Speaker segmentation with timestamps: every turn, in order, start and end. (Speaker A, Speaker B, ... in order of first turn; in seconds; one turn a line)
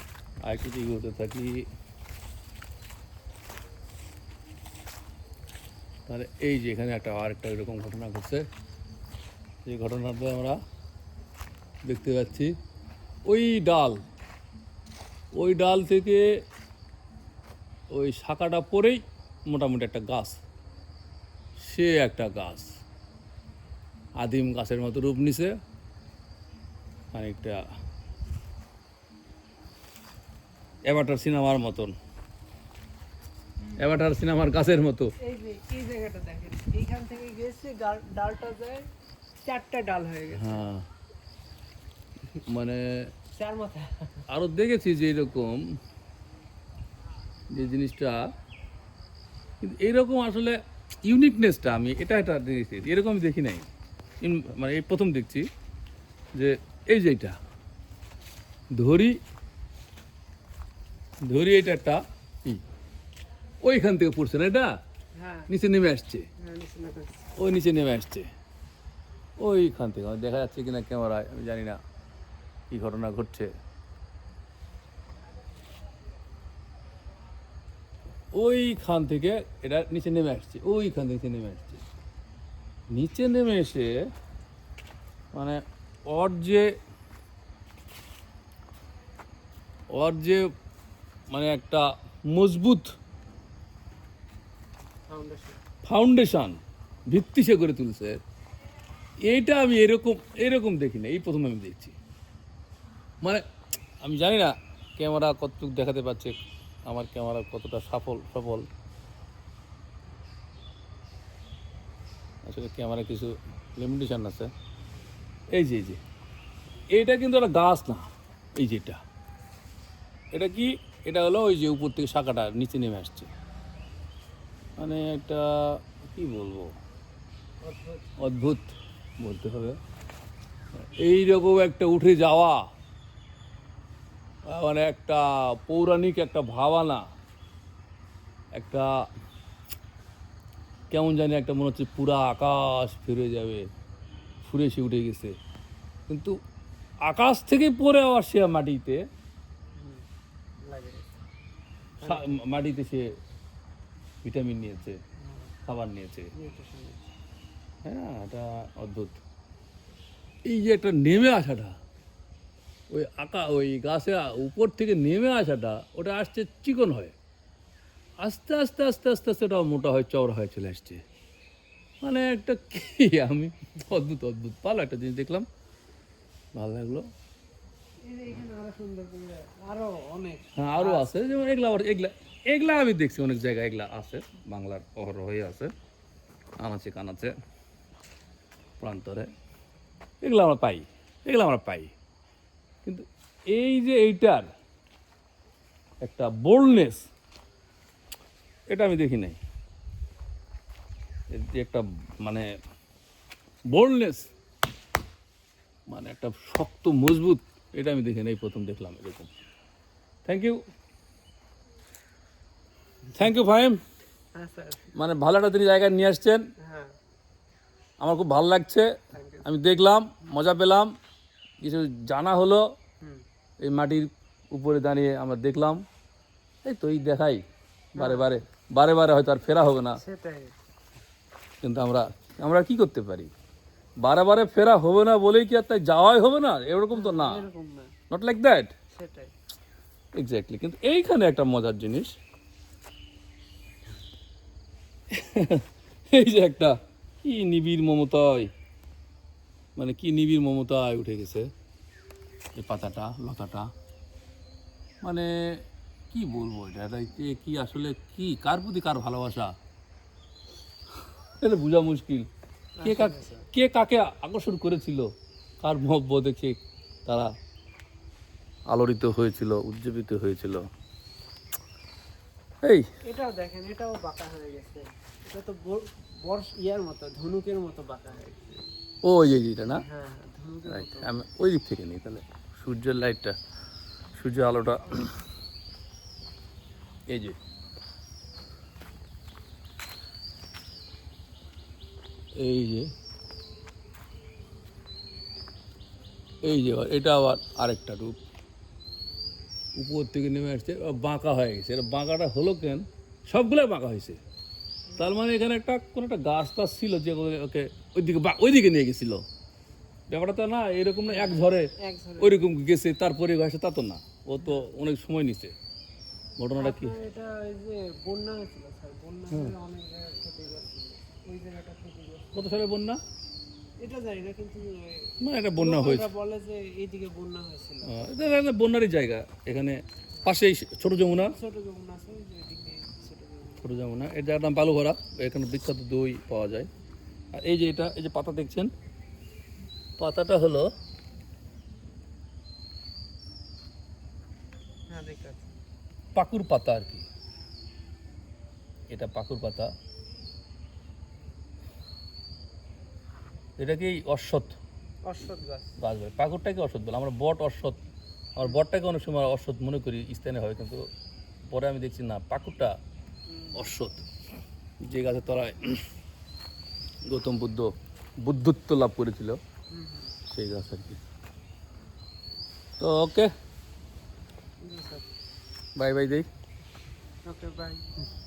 Speaker A: 0.4-1.6
Speaker A: 6.1-8.4
Speaker A: 9.7-10.6
Speaker A: 11.8-12.6
Speaker A: 13.3-14.0
Speaker A: 15.3-16.3
Speaker A: 17.9-20.4
Speaker A: 21.6-22.7
Speaker A: 24.2-25.6
Speaker A: 27.1-27.6
Speaker A: 30.9-31.9
Speaker A: 33.8-35.1
Speaker B: 35.2-38.9
Speaker B: 39.5-40.6
Speaker A: 40.3-40.9
Speaker A: 42.5-43.1
Speaker B: 43.3-44.2
Speaker A: 44.3-45.6
Speaker A: 47.5-48.3
Speaker A: 49.6-53.7
Speaker A: 54.2-55.5
Speaker A: 56.4-57.4
Speaker A: 58.8-59.2
Speaker A: 61.2-62.6
Speaker A: 63.6-64.8
Speaker B: 65.2-65.5
Speaker A: 65.5-66.3
Speaker B: 66.4-67.4
Speaker A: 67.4-68.3
Speaker A: 69.4-71.8
Speaker A: 72.7-73.5
Speaker A: 78.3-81.8
Speaker A: 82.9-84.0
Speaker A: 85.3-86.7
Speaker A: 89.9-90.5
Speaker A: 91.3-92.9
Speaker B: 95.1-95.6
Speaker A: 95.8-96.6
Speaker A: 97.1-98.2
Speaker A: 99.3-102.0
Speaker A: 104.0-108.7
Speaker A: 112.5-114.5
Speaker A: 115.5-116.0
Speaker A: 116.9-119.0
Speaker A: 120.3-123.3
Speaker A: 124.8-126.8
Speaker B: 127.6-128.2
Speaker A: 128.2-129.8
Speaker A: 130.8-132.7
Speaker A: 134.5-137.1
Speaker A: 138.6-139.0
Speaker A: 140.9-143.7
Speaker A: 144.4-145.4
Speaker A: 146.1-146.4
Speaker A: 147.1-149.0
Speaker B: 149.8-150.0
Speaker B: 150.7-151.1
Speaker B: 152.0-152.4
Speaker A: 152.0-153.1
Speaker A: 154.2-155.0
Speaker B: 155.2-155.5
Speaker A: 155.7-156.3
Speaker B: 156.3-157.1
Speaker A: 157.8-159.2
Speaker A: 160.4-161.8
Speaker A: 162.9-167.1
Speaker A: 168.2-171.0
Speaker A: 172.0-175.5
Speaker A: 176.6-177.1
Speaker B: 178.0-181.2
Speaker A: 180.6-185.7
Speaker A: 186.6-187.4
Speaker A: 188.8-189.3
Speaker A: 190.2-191.9
Speaker A: 192.8-194.5
Speaker A: 196.0-197.1
Speaker A: 198.7-199.4
Speaker A: 201.3-202.5
Speaker A: 203.7-204.3
Speaker A: 205.9-209.3
Speaker A: 210.3-210.6
Speaker A: 213.1-213.8
Speaker B: 214.3-214.9
Speaker A: 214.9-216.4
Speaker B: 216.6-216.9
Speaker A: 218.0-220.9
Speaker B: 219.1-219.5
Speaker A: 221.6-222.7
Speaker A: 223.6-225.8
Speaker A: 226.7-227.4
Speaker B: 228.0-228.4
Speaker A: 228.0-230.0
Speaker B: 230.0-230.6
Speaker A: 231.6-233.3
Speaker A: 234.0-237.4
Speaker B: 236.9-237.9
Speaker A: 238.1-238.7
Speaker B: 238.9-239.3
Speaker A: 240.2-242.2
Speaker A: 245.1-248.5
Speaker A: 249.8-251.5
Speaker A: 252.6-253.7
Speaker A: 255.0-259.6
Speaker A: 261.4-262.3
Speaker B: 262.8-263.5
Speaker A: 262.8-265.1
Speaker A: 265.6-267.3
Speaker A: 268.7-270.7
Speaker B: 273.0-278.6
Speaker A: 279.0-279.8
Speaker B: 279.8-281.2
Speaker A: 280.7-283.4
Speaker A: 284.1-285.2
Speaker A: 287.1-287.4
Speaker A: 292.4-292.9
Speaker A: 296.4-298.2
Speaker A: 299.8-304.2
Speaker B: 304.9-305.2
Speaker A: 305.0-309.2
Speaker A: 310.1-315.5
Speaker B: 311.1-312.4
Speaker B: 314.4-314.7
Speaker A: 316.4-317.0
Speaker B: 316.6-322.4
Speaker A: 322.3-323.0
Speaker B: 323.8-328.4
Speaker A: 325.2-326.1
Speaker A: 327.9-331.4
Speaker B: 331.2-333.8
Speaker A: 333.6-336.7
Speaker A: 337.3-338.7
Speaker A: 340.0-340.7
Speaker B: 344.9-345.5
Speaker A: 346.1-347.1
Speaker A: 348.9-349.7
Speaker A: 353.6-354.6
Speaker B: 355.0-355.8
Speaker A: 355.8-357.8
Speaker A: 358.4-360.9
Speaker A: 361.5-362.8
Speaker A: 363.6-364.0
Speaker A: 364.8-365.8
Speaker A: 367.1-369.4
Speaker B: 369.7-370.2
Speaker A: 370.3-371.0
Speaker A: 372.8-373.3
Speaker B: 374.6-375.1
Speaker A: 375.8-376.3
Speaker B: 377.2-378.0